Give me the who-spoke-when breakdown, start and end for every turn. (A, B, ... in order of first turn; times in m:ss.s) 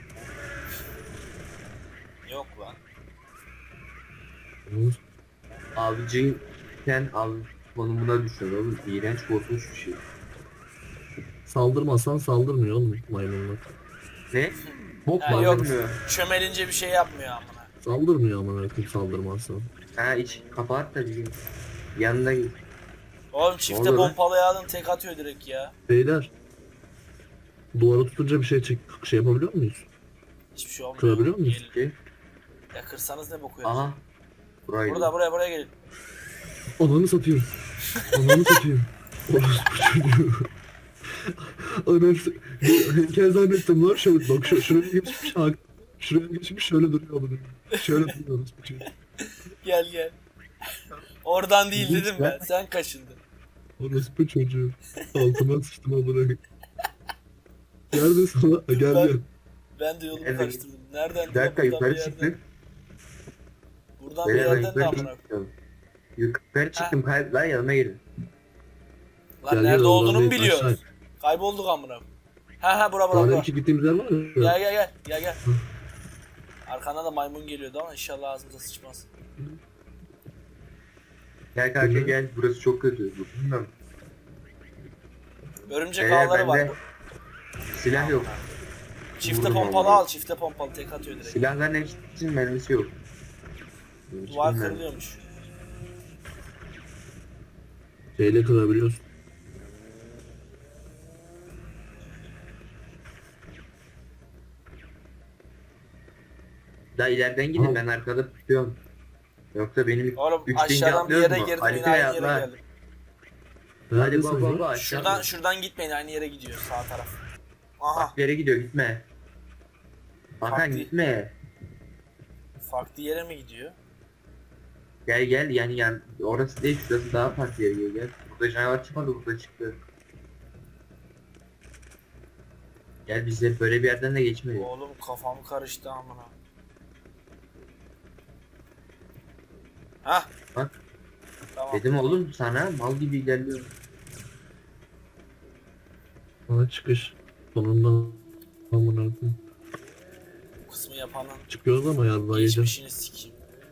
0:02.2-0:02.8 A
0:04.6-0:05.0 B
0:05.7-0:10.0 C
0:11.4-0:13.6 B
0:14.3-0:16.0 C
0:15.2-0:17.7 A
0:15.3-0:15.7 B
0:17.8-0:19.7 B
0:20.0-0:21.4 C
0:21.9-0:22.6 C
0:23.3-0:25.7 A
0:23.7-0:24.2 C
0:25.9-0:26.3 B
0:27.7-0:29.8 B
0:30.5-0:31.7 A
0:31.0-0:31.6 B
0:31.6-0:32.0 C
0:32.7-0:33.9 A
0:33.6-0:34.0 C
0:34.6-0:35.1 C
0:34.8-0:35.7 A
0:36.8-0:37.5 B
0:38.1-0:40.5 B
0:41.2-0:48.9 B
0:44.4-0:45.3 A
0:47.8-0:48.1 A
0:49.2-0:50.2 A
0:51.2-0:53.2 A
0:51.7-0:52.4 C
0:53.8-0:56.4 B
0:57.9-0:59.3 B
0:58.7-0:59.2 A
0:59.8-1:02.3 A
1:00.2-1:00.6 C
1:01.3-1:02.4 C
1:04.0-1:05.2 A
1:04.2-1:05.5 C
1:06.2-1:08.0 C
1:09.4-1:12.0 A
1:09.5-1:10.8 B
1:12.6-1:13.5 A
1:13.1-1:14.6 B
1:14.4-1:15.4 A
1:16.7-1:19.1 A
1:21.5-1:23.7 C
1:21.8-1:22.1 B
1:25.7-1:26.8 A
1:26.0-1:26.8 C
1:27.7-1:28.4 C
1:27.9-1:28.4 A
1:29.2-1:31.5 A
1:29.2-1:30.0 C
1:31.2-1:33.0 C
1:34.1-1:34.8 C
1:34.3-1:35.2 A
1:38.2-1:39.0 B
1:47.0-1:48.8 C
1:47.5-1:47.8 B
1:49.5-1:52.5 C
1:50.2-1:52.6 A
1:53.9-1:54.7 B
1:53.9-1:55.3 C
1:54.7-1:57.2 A
1:57.8-1:58.1 A
1:57.9-1:59.1 C
2:00.4-2:01.4 C
2:00.4-2:00.9 A
2:02.6-2:03.8 A
2:05.0-2:09.8 C
2:13.0-2:14.7 C
2:14.5-2:16.3 A
2:20.0-2:20.3 A
2:21.5-2:22.2 A
2:21.7-2:23.7 C
2:26.5-2:29.4 B
2:30.7-2:31.5 A
2:31.5-2:32.7 B
2:32.3-2:33.4 A